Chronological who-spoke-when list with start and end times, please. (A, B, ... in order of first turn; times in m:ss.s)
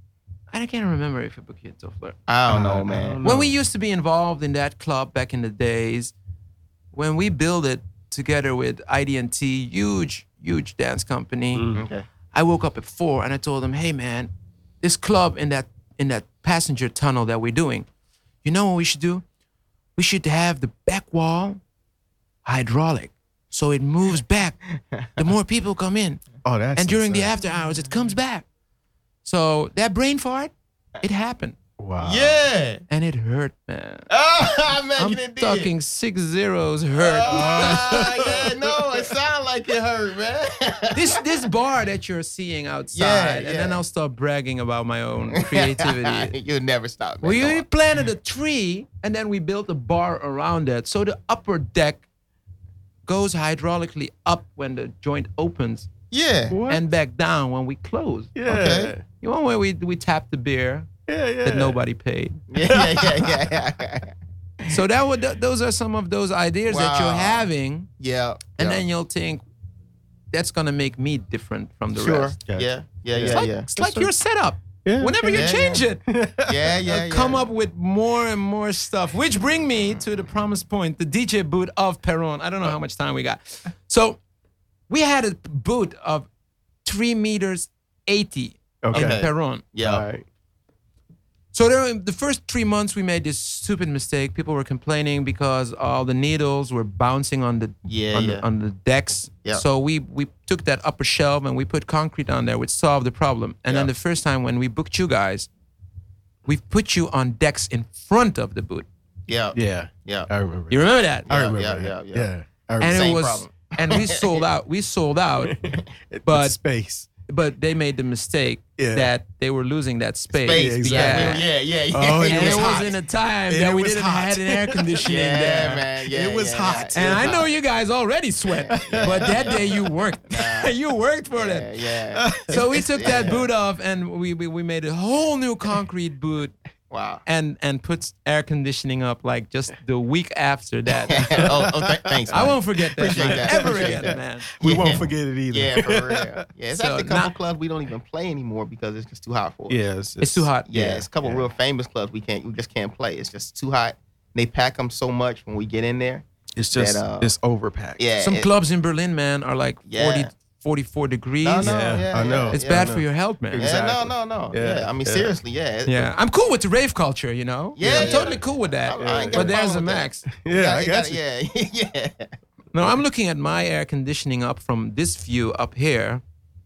0:00.5-0:02.2 A
0:02.3-0:03.2 B
0:02.5-0:03.5 C
0:03.2-0:06.1 A
0:06.9-0:11.6 A
0:11.5-0:11.9 C
0:11.7-0:12.0 B
0:12.3-0:14.3 A
0:14.8-0:17.9 A
0:18.4-0:19.2 A
0:20.0-0:21.6 A
0:22.4-0:24.6 A
0:24.9-0:25.2 B
0:25.2-0:26.2 A
0:26.4-0:27.3 C
0:26.8-0:28.5 A
0:29.2-0:31.6 A
0:31.8-0:32.4 C
0:32.0-0:32.8 B
0:32.9-0:34.1 A
0:34.1-0:35.7 B
0:35.0-0:38.3 A
0:37.0-0:41.2 B
0:37.3-0:38.9 C
0:40.9-0:46.3 A
0:43.0-0:43.8 B
0:45.3-0:47.6 B
0:47.2-0:52.1 A
0:53.1-0:55.9 A
0:56.1-0:56.6 B
0:56.5-0:56.8 C
0:56.7-0:58.3 A
0:58.4-0:59.0 C
0:58.5-0:59.0 B
0:59.2-1:00.9 A
1:01.1-1:01.8 C
1:01.4-1:02.4 A
1:02.5-1:04.1 B
1:02.7-1:03.5 C
1:04.7-1:07.9 A
1:06.7-1:07.5 B
1:08.0-1:08.8 B
1:08.6-1:09.4 A
1:10.3-1:12.4 A
1:12.0-1:13.7 B
1:12.5-1:14.1 C
1:13.3-1:16.0 A
1:14.8-1:16.7 C
1:15.3-1:15.9 B
1:16.4-1:17.5 B
1:16.9-1:24.2 A
1:24.9-1:26.3 A
1:26.8-1:29.6 A
1:28.8-1:29.2 C
1:28.9-1:30.0 B
1:29.8-1:30.2 C
1:31.5-1:45.5 A
1:37.8-1:38.4 B
1:46.4-1:48.9 A
1:49.3-1:50.3 B
1:49.5-1:53.2 C
1:50.7-1:51.3 A
1:51.3-1:52.3 B
1:52.8-1:55.6 A
1:52.8-1:54.4 B
1:55.4-1:57.1 C
1:56.3-1:56.6 A
1:57.3-2:01.4 A
1:58.8-1:59.1 C
2:00.3-2:03.0 B
2:00.5-2:02.9 C
2:02.2-2:05.9 A
2:03.5-2:05.5 C
2:05.0-2:07.5 B
2:06.1-2:07.5 C
2:06.9-2:11.7 A
2:08.5-2:10.7 B
2:08.7-2:09.7 C
2:11.4-2:13.5 B
2:12.1-2:13.4 C
2:12.5-2:16.5 A
2:16.9-2:17.2 B
2:17.3-2:21.7 A
2:21.1-2:29.8 B
2:21.3-2:26.4 C
2:22.3-2:24.5 A
2:26.7-2:27.3 A
2:29.7-2:31.4 C
2:30.2-2:30.7 A
2:30.7-2:37.3 B
2:36.6-2:38.0 C
2:38.0-2:38.5 B
2:38.2-2:42.0 A
2:39.9-2:40.3 B
2:41.4-2:43.0 B
2:41.6-2:45.4 C
2:42.5-2:43.6 A
2:43.6-2:46.1 B
2:45.9-2:50.3 A
2:47.8-2:52.3 B
2:47.8-2:48.4 C
2:49.0-2:49.6 C
2:50.4-2:51.2 C
2:52.7-2:56.2 A